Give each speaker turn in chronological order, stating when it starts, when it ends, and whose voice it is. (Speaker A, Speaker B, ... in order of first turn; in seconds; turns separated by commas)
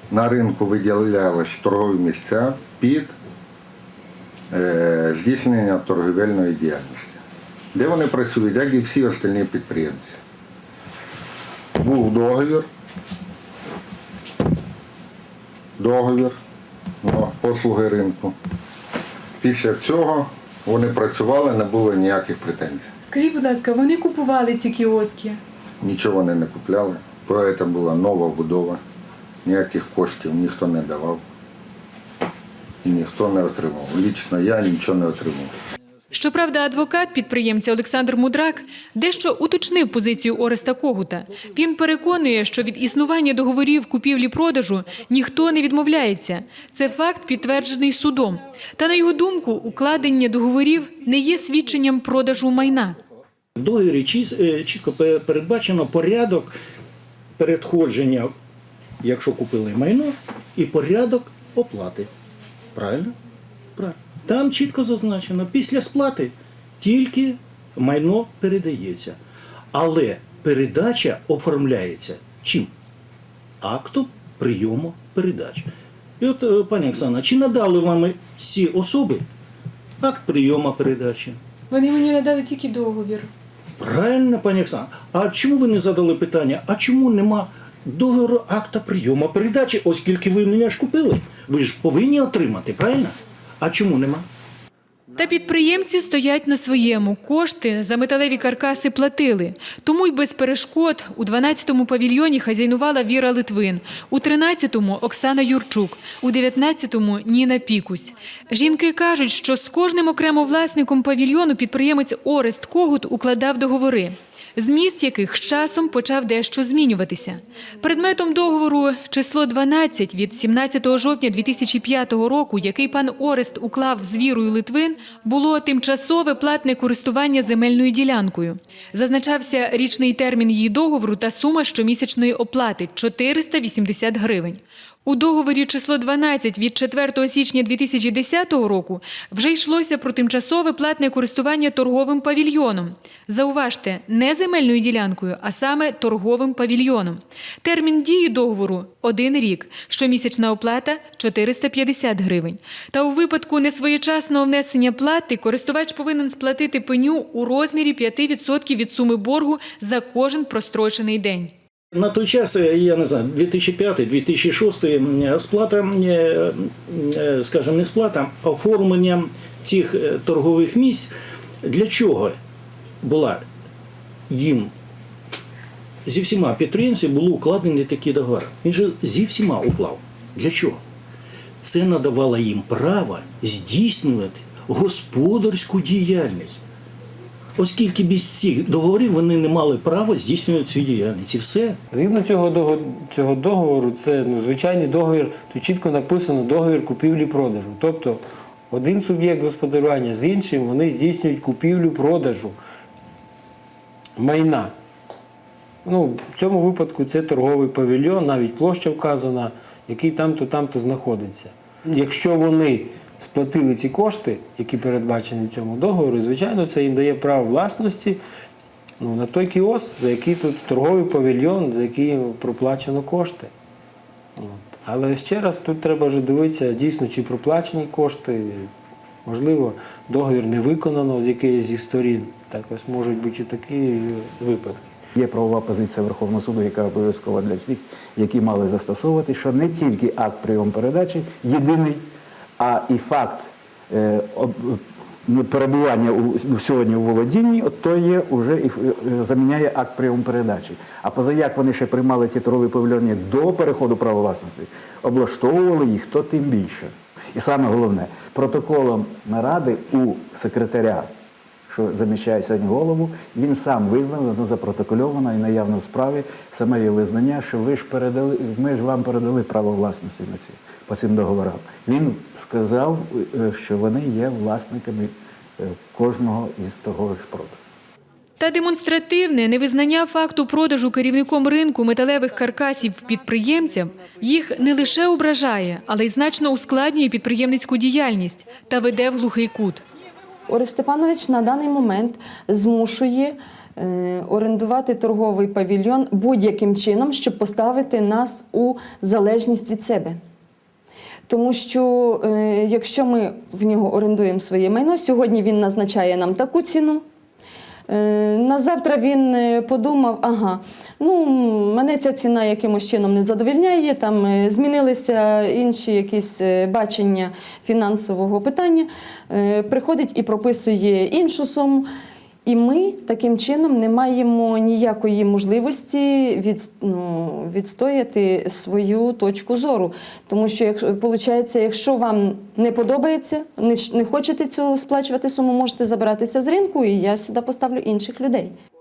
Speaker A: 0.1-3.1, Speaker A: 4.5-7.2, Speaker A: 7.8-10.2, Speaker A: 11.8-12.7, Speaker A: 15.8-16.4, Speaker A: 17.0-18.4, Speaker A: 19.4-22.9, Speaker B: 23.0-25.4, Speaker A: 25.8-28.8, Speaker A: 29.4-31.2, Speaker A: 32.8-35.5, Speaker B: 36.1-53.0, Speaker C: 53.6-56.5, Speaker C: 57.4-58.3, Speaker C: 59.0-62.1, Speaker C: 62.8-63.1, Speaker C: 63.8-69.2, Speaker C: 69.7-72.7, Speaker C: 73.6-75.7, Speaker C: 76.2-79.2, Speaker C: 80.0-81.4, Speaker B: 81.7-83.3, Speaker C: 83.8-94.2, Speaker B: 95.2-161.5, Speaker C: 161.9-171.1, Speaker C: 171.6-172.4, Speaker C: 173.0-173.4, Speaker C: 174.3-174.7, Speaker C: 176.1-180.8, Speaker C: 181.6-186.6, Speaker C: 187.6-191.8, Speaker D: 191.9-202.6, Speaker D: 204.2-204.7, Speaker D: 205.8-218.2, Speaker D: 219.0-223.5, Speaker D: 224.4-228.7, Speaker D: 229.2-234.9, Speaker E: 235.1-242.1, Speaker E: 242.6-261.1, Speaker E: 261.7-277.6, Speaker B: 278.4-289.8, Speaker F: 290.5-300.2, Speaker F: 301.3-307.1, Speaker F: 307.9-321.9, Speaker F: 322.5-338.5